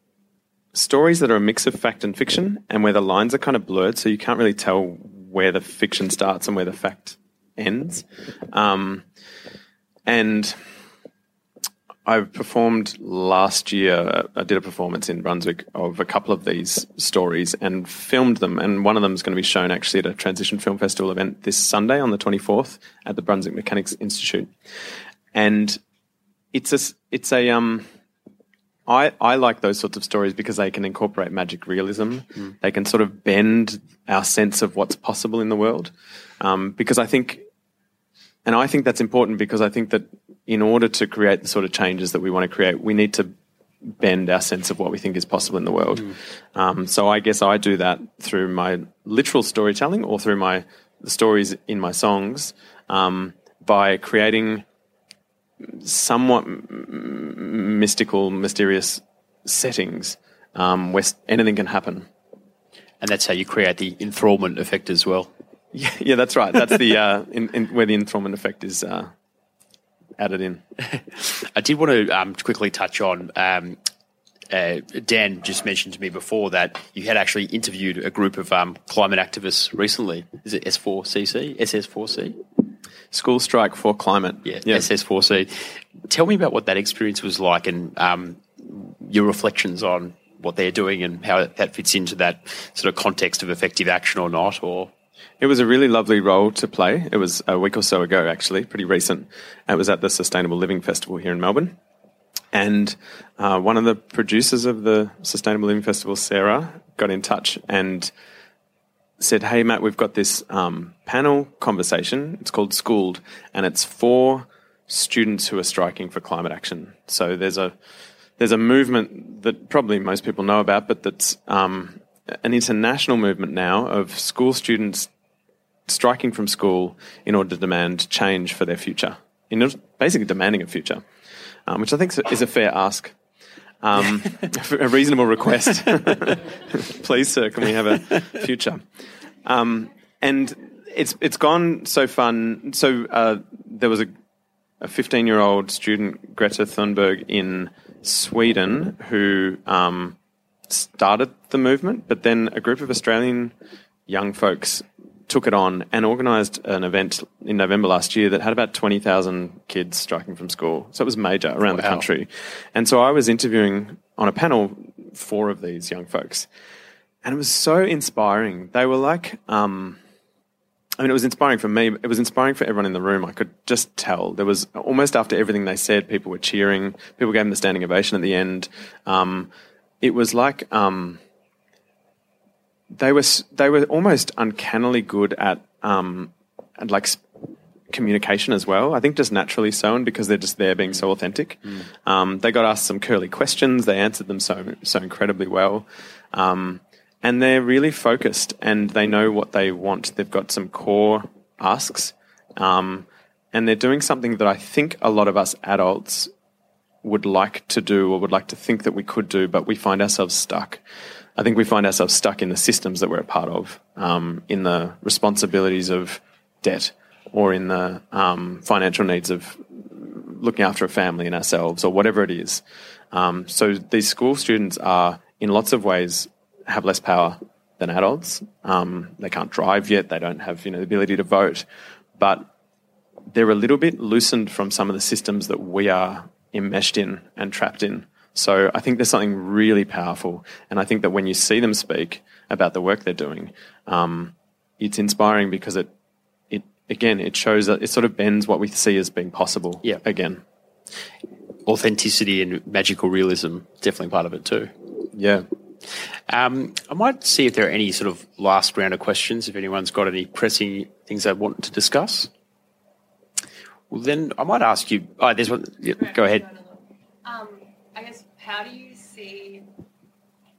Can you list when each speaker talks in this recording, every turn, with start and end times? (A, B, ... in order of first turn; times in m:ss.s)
0:00.7-0:09.0 A
0:10.1-0:10.6 A
0:12.0-0:24.5 A
0:25.3-0:25.8 A
0:26.5-0:27.9 A
0:28.8-0:37.4 A
0:38.4-0:54.6 A
0:55.6-1:02.1 A
1:03.0-1:05.3 B
1:05.7-1:09.1 A
1:10.2-1:10.6 A
1:11.4-1:13.8 B
1:14.5-1:22.4 B
1:23.1-1:24.8 A
1:24.4-1:34.9 B
1:35.4-1:41.8 A
1:42.5-1:48.1 A
1:49.2-1:57.7 A
1:58.4-2:05.1 A
2:05.9-2:11.0 A
2:11.7-2:13.1 A
2:13.8-2:18.8 A
2:19.4-2:24.1 A
2:24.8-2:30.2 A
2:30.7-2:33.5 A
2:34.1-2:46.5 A
2:41.7-2:42.0 B
2:47.2-2:50.0 A
2:51.0-2:59.5 A
3:00.0-3:01.2 A
3:02.9-3:07.2 A
3:07.9-3:26.3 A
3:27.0-3:30.8 A
3:31.4-3:51.6 A
3:52.2-3:52.5 A
3:53.3-4:05.9 A
4:06.5-4:10.4 A
4:11.6-4:14.7 B
4:15.1-4:15.5 A
4:16.3-4:22.3 B
4:23.9-4:26.4 B
4:25.9-4:29.7 C